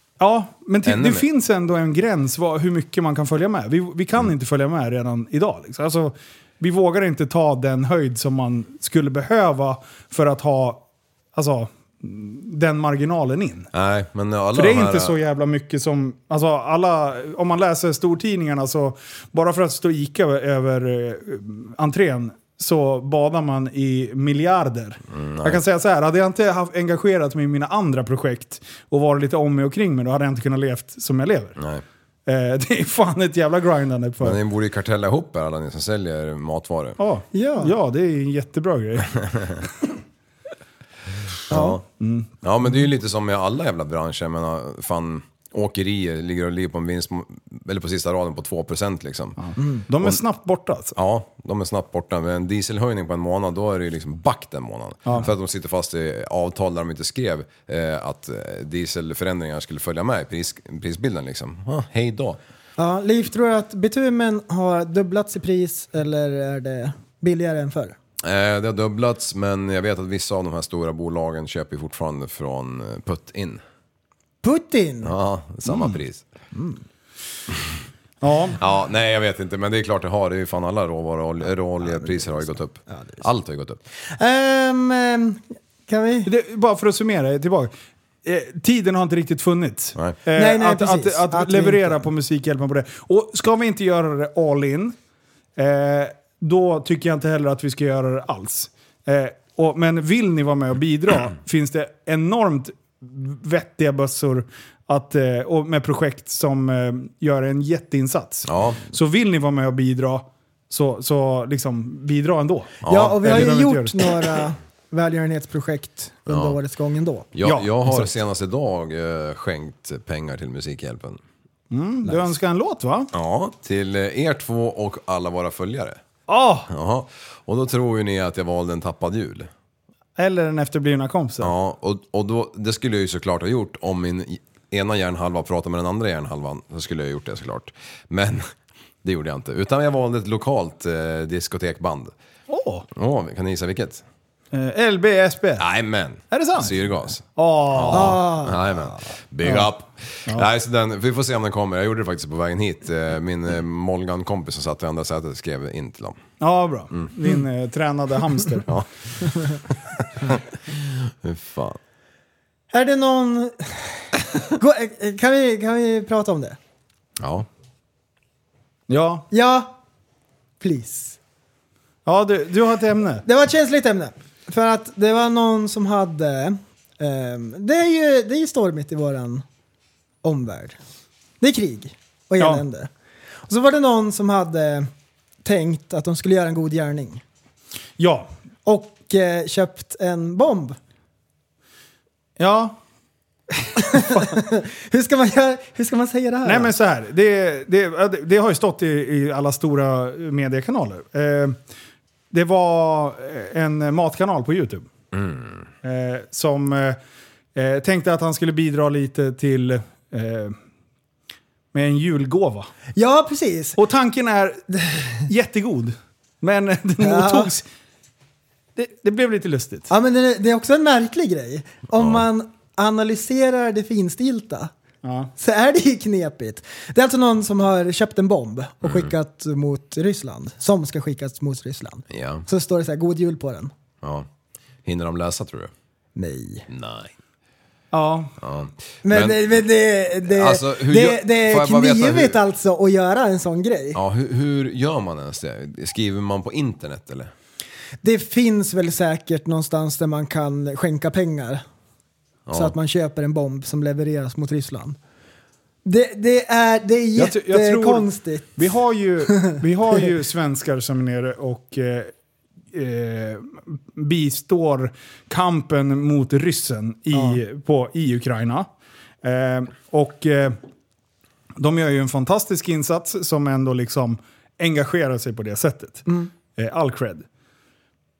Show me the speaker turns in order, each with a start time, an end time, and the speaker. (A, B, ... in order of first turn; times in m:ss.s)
0:00.2-0:10.8 A
0:00.8-0:01.2 B
0:11.4-0:13.7 A
0:13.7-0:15.1 B
0:14.6-0:31.6 A
0:25.1-0:25.6 B
0:31.6-0:31.8 B
0:32.3-0:34.4 A
0:34.2-0:37.0 B
0:37.0-0:39.7 A
0:37.3-0:37.7 C
0:41.5-0:41.8 C
0:41.5-0:41.8 B
0:41.9-0:42.3 A
0:42.4-0:49.4 B
0:49.4-0:51.0 A
0:49.6-0:49.8 C
0:51.0-1:02.4 B
1:02.8-1:08.0 C
1:08.2-1:13.6 B
1:14.4-1:15.1 C
1:15.0-1:16.2 B
1:15.7-1:16.0 A
1:16.5-1:16.8 C
1:18.2-1:18.6 A
1:18.6-1:23.8 B
1:21.8-1:23.2 C
1:24.1-1:26.3 C
1:26.2-1:27.7 A
1:28.2-1:35.0 A
1:30.4-1:32.0 C
1:35.6-1:54.0 A
1:48.5-1:48.9 B
1:52.8-1:53.4 B
1:52.9-1:57.3 C
1:56.3-1:56.6 B
1:57.3-2:01.2 B
1:57.4-1:58.1 A
2:01.7-2:03.1 A
2:03.1-2:06.0 B
2:06.3-2:06.7 A
2:06.7-2:09.5 B
2:10.2-2:11.5 A
2:11.4-2:18.5 B
2:19.0-2:22.2 B
2:22.5-2:22.9 A
2:22.9-2:24.0 B
2:24.5-2:25.7 A
2:25.6-2:36.2 B
2:26.3-2:26.8 A
2:27.4-2:28.3 A
2:27.9-2:29.0 C
2:36.4-2:38.8 A
2:38.7-2:41.8 B
2:42.7-2:46.6 C
2:47.2-2:47.5 B
2:48.9-2:49.3 A
2:49.3-2:49.8 C
2:50.6-2:51.2 C
2:52.1-2:53.2 A
2:53.2-2:59.4 C
3:00.2-3:00.8 C
3:01.4-3:02.9 C
3:03.5-3:04.9 C
3:05.4-3:07.2 C
3:08.0-3:08.3 A
3:08.7-3:10.8 C
3:12.4-3:12.8 A
3:13.8-3:16.7 C
3:13.9-3:14.3 A
3:16.4-3:21.6 A
3:22.3-3:24.9 A
3:25.1-3:25.7 B
3:25.8-3:27.0 A
3:27.6-3:30.6 A
3:31.7-3:32.7 A
3:33.0-3:33.8 C
3:33.8-3:37.6 A
3:37.0-3:37.5 C
3:38.8-3:39.9 A
3:39.9-3:44.7 C
3:42.0-3:42.2 B
3:45.0-3:45.3 A
3:45.4-3:53.7 C
3:48.8-3:49.1 B
3:52.1-3:52.5 B
3:54.0-3:54.3 B
3:54.8-3:55.7 B
3:56.2-3:56.7 C
3:56.7-3:57.1 B
3:57.9-3:58.3 A
3:58.4-3:59.7 B
3:59.0-4:04.0 C
4:00.2-4:02.4 B
4:03.9-4:07.3 B
4:08.0-4:11.6 C
4:12.5-4:12.7 B
4:12.5-4:15.0 C
4:15.8-4:18.6 C
4:17.2-4:22.1 A
4:22.7-4:28.7 A
4:27.1-4:27.4 C
4:29.2-4:30.6 A
4:31.6-4:37.2 A